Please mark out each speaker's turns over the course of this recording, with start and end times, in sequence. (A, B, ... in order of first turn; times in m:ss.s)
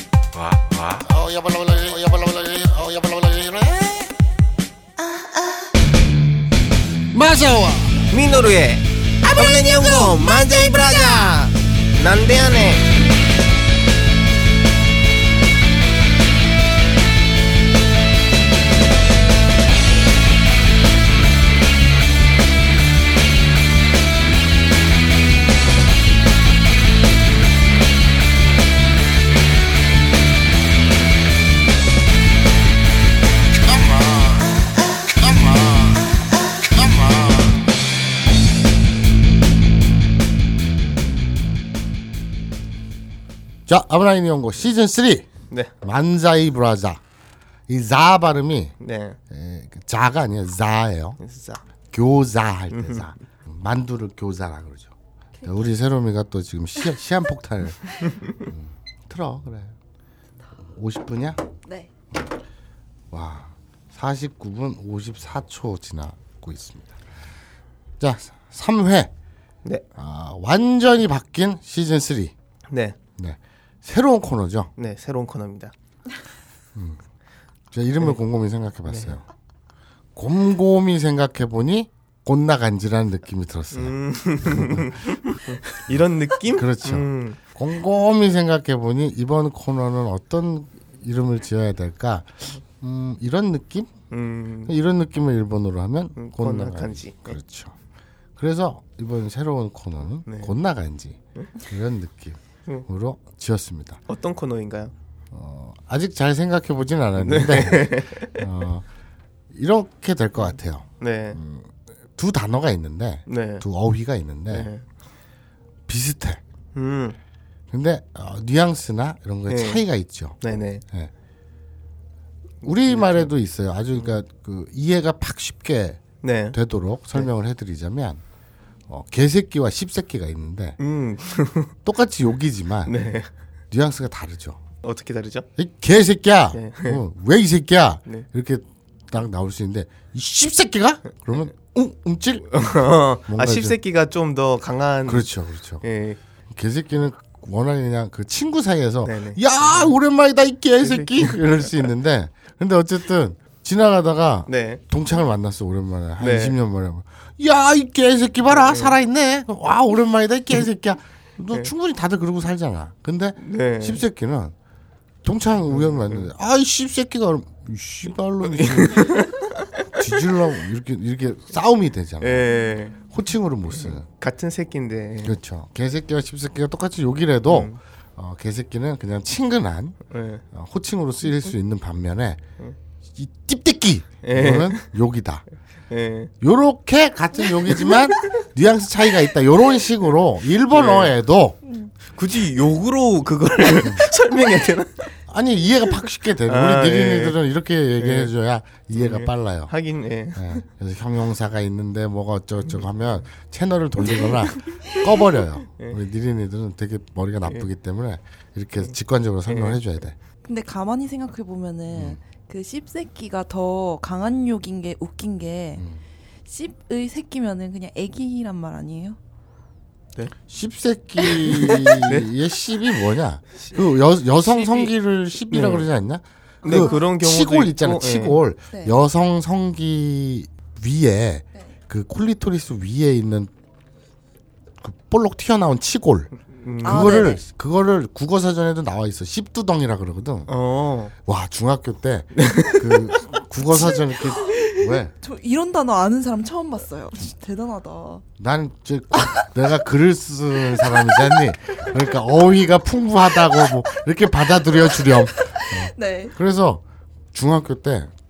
0:00.9-0:03.9 A
0:05.0-0:05.6 B
0:07.1-0:08.0 A
0:08.1-0:12.8 C
0:09.3-0:11.3 B
0:33.6-0:36.2 A
0:36.7-0:37.7 A
0:43.7-0:45.3 A
0:45.8-0:47.0 A
0:47.7-0:48.8 A
0:48.8-0:49.2 C
0:49.3-0:51.2 A
0:51.2-0:51.6 C
0:51.9-0:59.8 A
0:52.7-0:53.1 C
0:58.1-0:58.3 C
1:00.6-1:01.4 A
1:03.1-1:07.0 A
1:08.0-1:09.1 A
1:10.0-1:12.3 A
1:12.7-1:13.0 C
1:13.2-1:14.7 A
1:14.8-1:15.7 C
1:16.8-1:17.0 A
1:17.7-1:19.2 A
1:18.9-1:19.1 C
1:20.2-1:25.0 A
1:23.7-1:27.4 C
1:25.9-1:33.9 A
1:34.1-1:34.7 C
1:34.7-1:37.8 A
1:36.2-1:37.4 C
1:38.4-1:44.0 A
1:40.3-1:40.5 C
1:44.1-1:44.9 C
1:45.3-1:48.9 A
1:47.2-1:48.4 C
1:49.5-1:54.7 A
1:51.0-1:51.4 C
1:53.3-1:53.6 C
1:54.5-1:54.8 C
1:55.9-1:56.4 A
1:56.8-1:57.2 C
1:57.7-2:00.4 A
1:59.5-1:59.8 C
2:00.4-2:00.8 C
2:02.6-2:06.0 A
2:02.6-2:03.3 C
2:06.2-2:06.6 C
2:06.5-2:08.2 A
2:08.9-2:10.8 A
2:10.8-2:11.7 C
2:11.8-2:13.0 A
2:12.9-2:13.3 C
2:13.7-2:14.6 A
2:14.8-2:15.5 C
2:15.6-2:23.8 A
2:16.5-2:17.0 C
2:22.5-2:25.3 C
2:25.1-2:25.8 A
2:25.8-2:26.2 C
2:26.5-2:44.6 A
2:29.0-2:30.0 C
2:30.8-2:31.7 C
2:34.5-2:34.8 C
2:36.2-2:36.6 C
2:38.5-2:39.0 C
2:43.4-2:44.0 C
2:45.2-2:49.3 A
2:45.7-2:46.3 C
2:48.5-2:49.7 C
2:50.0-2:52.5 A
2:52.2-2:53.0 C
2:53.0-2:54.1 A
2:53.8-2:55.4 C
2:55.2-3:00.0 A
2:57.5-2:57.8 C
3:00.1-3:00.4 C
3:00.5-3:02.4 A
3:03.2-3:05.4 A
3:04.2-3:04.9 C
3:05.9-3:06.3 C
3:06.4-3:11.6 A
3:10.7-3:11.1 C
3:12.1-3:15.1 C
3:15.3-3:19.7 A
3:16.5-3:17.4 C
3:18.0-3:18.3 C
3:19.0-3:20.6 C
3:20.4-3:30.2 A
3:24.2-3:24.9 C
3:29.5-3:29.8 C
3:30.4-3:35.8 B
3:31.9-3:32.2 A
3:36.5-3:39.2 B
3:40.5-3:53.5 A
3:41.2-3:42.3 C
3:44.6-3:44.9 C
3:45.5-3:45.9 C
3:46.6-3:47.0 B
3:46.6-3:48.4 C
3:54.8-3:56.3 A
3:56.6-3:57.3 C
3:56.8-4:00.5 A
3:56.8-3:57.4 B
4:00.5-4:01.1 C
4:01.2-4:05.1 A
4:02.4-4:03.0 C
4:03.7-4:08.2 B
4:08.4-4:18.1 A
4:15.3-4:16.4 B